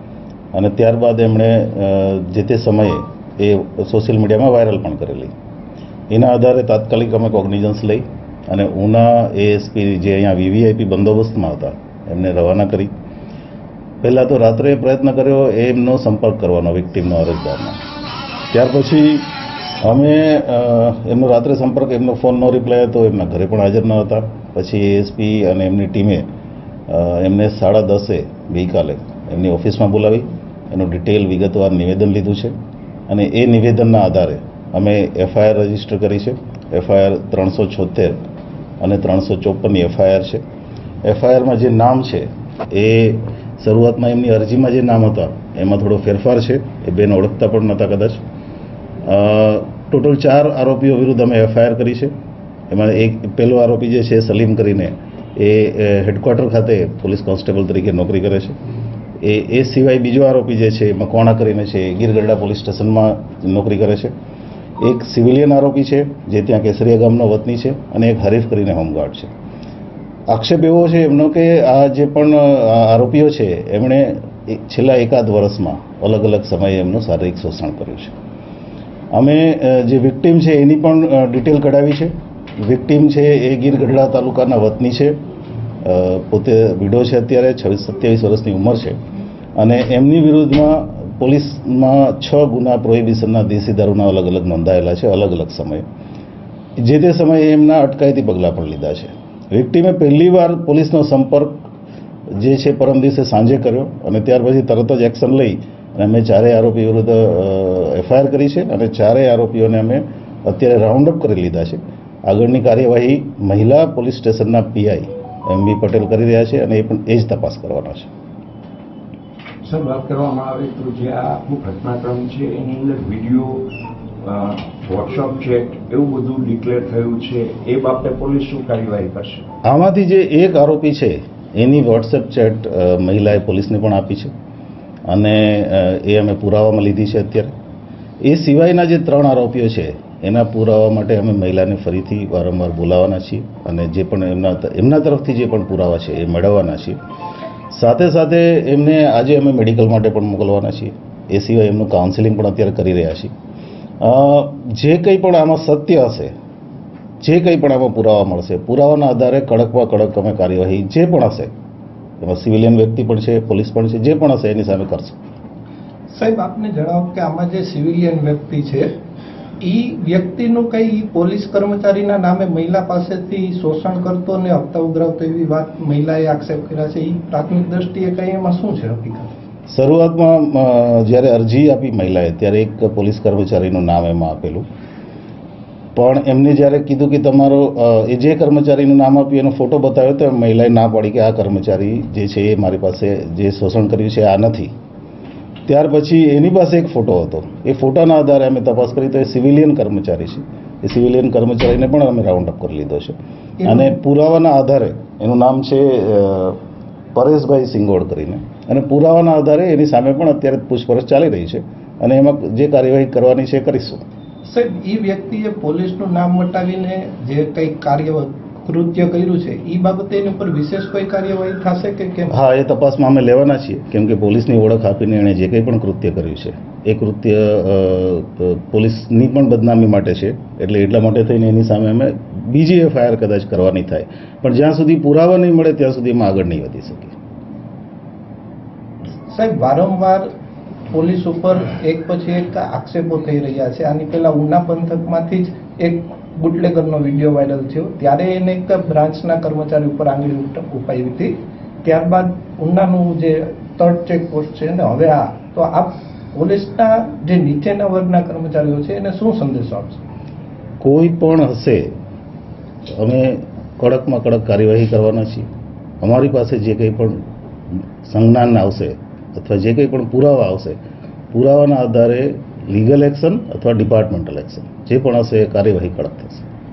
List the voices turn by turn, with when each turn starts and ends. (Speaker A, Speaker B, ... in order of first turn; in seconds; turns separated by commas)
Speaker A: 0.5-5.3, Speaker A: 6.1-12.9, Speaker A: 14.0-17.8, Speaker A: 18.5-19.3, Speaker A: 19.8-26.3, Speaker A: 26.9-32.5, Speaker A: 33.1-38.2, Speaker A: 38.8-40.4, Speaker A: 41.0-48.2, Speaker A: 49.0-52.1, Speaker A: 52.7-58.6, Speaker A: 59.2-64.1, Speaker A: 64.8-69.3, Speaker A: 70.3-78.2, Speaker A: 79.1-85.2, Speaker A: 85.8-89.0, Speaker A: 89.6-95.8, Speaker A: 96.8-101.7, Speaker A: 102.4-118.1, Speaker B: 119.7-123.7, Speaker B: 124.2-129.5, Speaker A: 129.7-134.3, Speaker A: 135.1-137.5, Speaker A: 138.2-147.0, Speaker A: 147.7-153.3, Speaker A: 154.0-156.3, Speaker A: 157.2-161.5, Speaker A: 162.2-165.2, Speaker C: 166.1-168.9, Speaker C: 169.6-179.3, Speaker A: 179.7-184.7, Speaker A: 185.9-194.7, Speaker A: 195.7-206.6, Speaker C: 203.6-203.9, Speaker A: 207.2-214.0, Speaker C: 214.5-222.3, Speaker A: 222.3-237.1, Speaker C: 239.3-240.3, Speaker C: 240.9-251.3, Speaker C: 251.8-260.0, Speaker A: 260.8-261.9, Speaker A: 263.0-265.5, Speaker A: 266.0-270.8, Speaker A: 271.3-276.5